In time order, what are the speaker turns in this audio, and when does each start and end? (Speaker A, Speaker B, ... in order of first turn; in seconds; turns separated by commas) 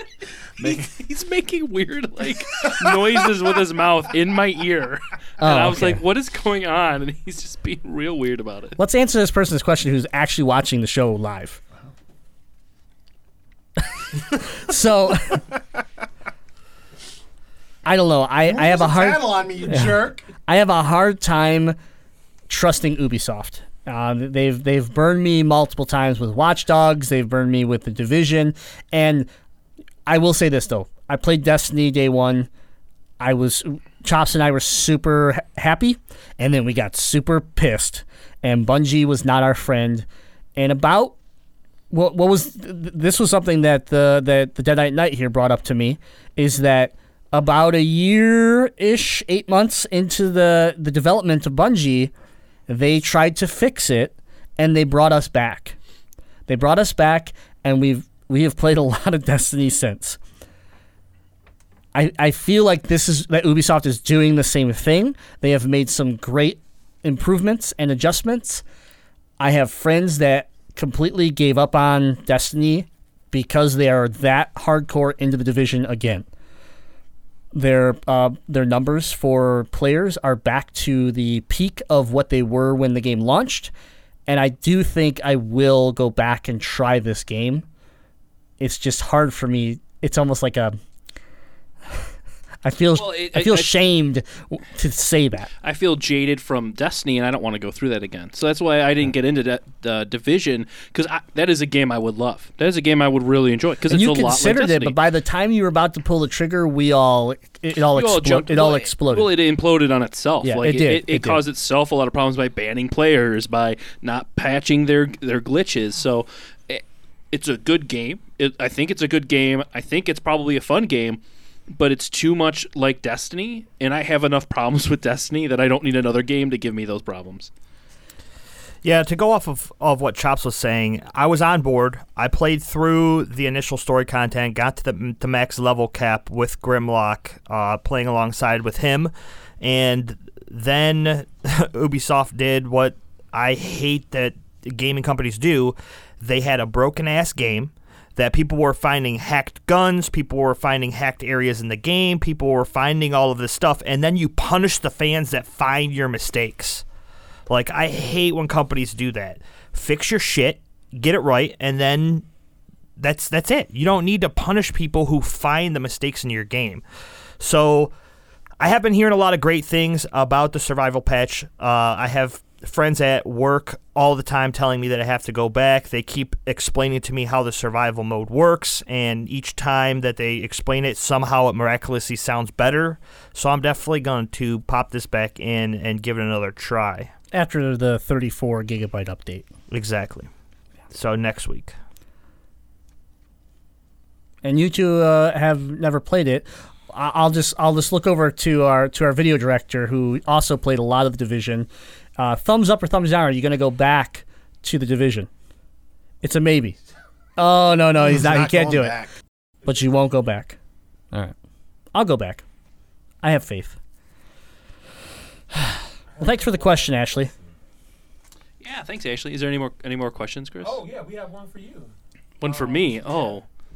Speaker A: 0.6-0.9, Speaker B: 0.6-8.8, Speaker C: 5.4-6.0, Speaker C: 8.8-11.6, Speaker C: 14.3-15.4, Speaker C: 17.8-21.8, Speaker A: 18.4-20.2, Speaker C: 22.5-29.3, Speaker C: 30.1-32.5, Speaker C: 33.2-41.1, Speaker C: 41.9-52.1, Speaker C: 52.7-55.8, Speaker C: 56.5-60.2, Speaker C: 61.9-68.6, Speaker C: 69.4-76.2, Speaker C: 77.5-83.7, Speaker C: 84.3-87.6, Speaker C: 88.6-90.8, Speaker C: 92.6-95.5, Speaker B: 92.9-93.8, Speaker B: 95.6-105.0, Speaker C: 103.9-109.3, Speaker B: 107.9-127.5, Speaker C: 110.4-111.4, Speaker D: 128.8-156.8, Speaker D: 157.5-162.2, Speaker D: 163.0-166.8, Speaker D: 167.4-167.9, Speaker D: 168.6-187.1, Speaker C: 187.3-189.4, Speaker D: 189.7-190.3, Speaker D: 190.9-191.7, Speaker C: 194.4-205.3, Speaker C: 206.2-206.8, Speaker C: 207.4-208.9, Speaker A: 208.0-209.1, Speaker C: 209.6-210.6, Speaker C: 211.9-212.4, Speaker C: 213.2-213.8, Speaker C: 215.6-217.3, Speaker E: 216.1-217.5, Speaker B: 218.6-220.8, Speaker E: 220.6-223.4, Speaker B: 222.4-223.4